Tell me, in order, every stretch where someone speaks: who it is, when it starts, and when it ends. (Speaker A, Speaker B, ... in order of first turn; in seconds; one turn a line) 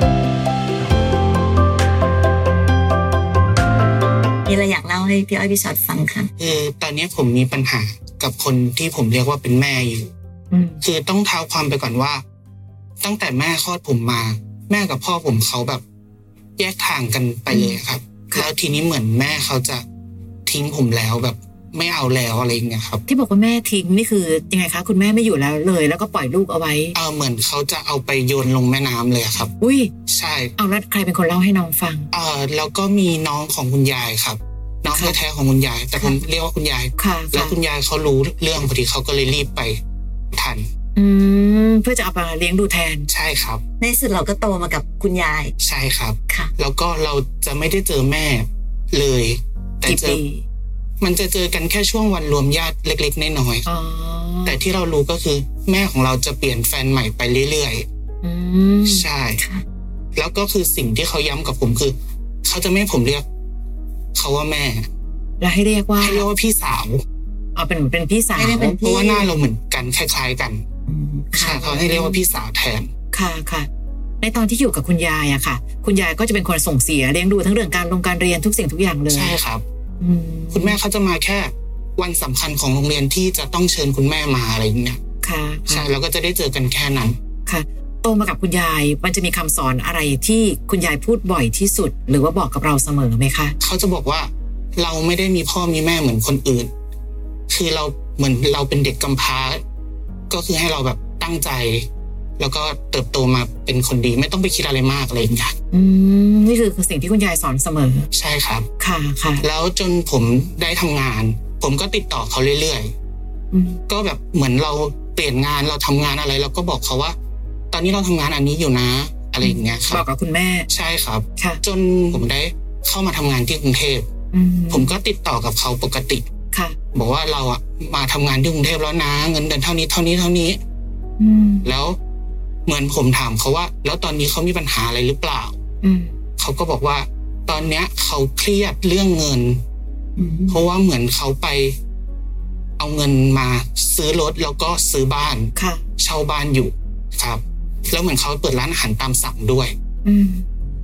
Speaker A: 4.5-6.3
Speaker B: 6.4-10.1
Speaker C: 10.5-10.8
Speaker B: 10.8-12.2
Speaker B: 13.0-15.8
Speaker B: 16.6-19.8
Speaker C: 17.5-17.8
Speaker B: 20.5-23.0
Speaker C: 23.1-26.9
Speaker B: 26.9-29.5
Speaker C: 29.6-29.9
Speaker B: 30.1-30.5
Speaker C: 30.6-32.1
Speaker B: 32.1-39.8
Speaker C: 37.0-37.6
Speaker B: 40.3-40.6
Speaker C: 41.0-43.1
Speaker B: 43.1-43.6
Speaker A: 43.8-45.5
Speaker B: 45.6-50.2
Speaker C: 49.9-50.5
Speaker B: 51.0-53.7
Speaker C: 53.6-54.6
Speaker B: 54.5-57.9
Speaker C: 58.2-59.1
Speaker B: 58.9-59.4
Speaker A: 59.4-59.6
Speaker B: 60.2-63.3
Speaker B: 64.2-64.9
Speaker C: 65.4-66.3
Speaker B: 66.0-67.0
Speaker C: 67.5-68.8
Speaker A: 68.3-69.5
Speaker B: 68.8-70.6
Speaker A: 70.9-71.9
Speaker B: 71.3-72.9
Speaker C: 71.4-72.2
Speaker C: 73.1-73.7
Speaker C: 74.2-79.4
Speaker B: 79.1-79.6
Speaker C: 80.0-80.8
Speaker B: 80.5-85.0
Speaker C: 85.2-85.9
Speaker B: 85.7-87.2
Speaker C: 87.5-93.6
Speaker B: 93.6-96.7
Speaker B: 97.5-99.6
Speaker B: 100.3-101.9
Speaker B: 102.4-105.5
Speaker C: 105.7-108.1
Speaker B: 108.1-108.7
Speaker C: 108.8-109.5
Speaker B: 109.4-112.9
Speaker C: 113.5-113.8
Speaker B: 113.9-117.2
Speaker B: 117.7-120.0
Speaker C: 119.4-120.7
Speaker B: 120.7-124.1
Speaker C: 121.4-121.6
Speaker C: 124.3-124.9
Speaker B: 124.7-126.3
Speaker C: 126.5-126.8
Speaker B: 126.9-130.6
Speaker C: 131.2-131.7
Speaker B: 131.7-132.0
Speaker B: 132.7-135.6
Speaker C: 135.8-136.2
Speaker B: 136.4-139.6
Speaker A: 140.2-140.6
Speaker B: 140.5-141.8
Speaker B: 142.8-149.7
Speaker C: 145.6-145.8
Speaker C: 150.1-150.4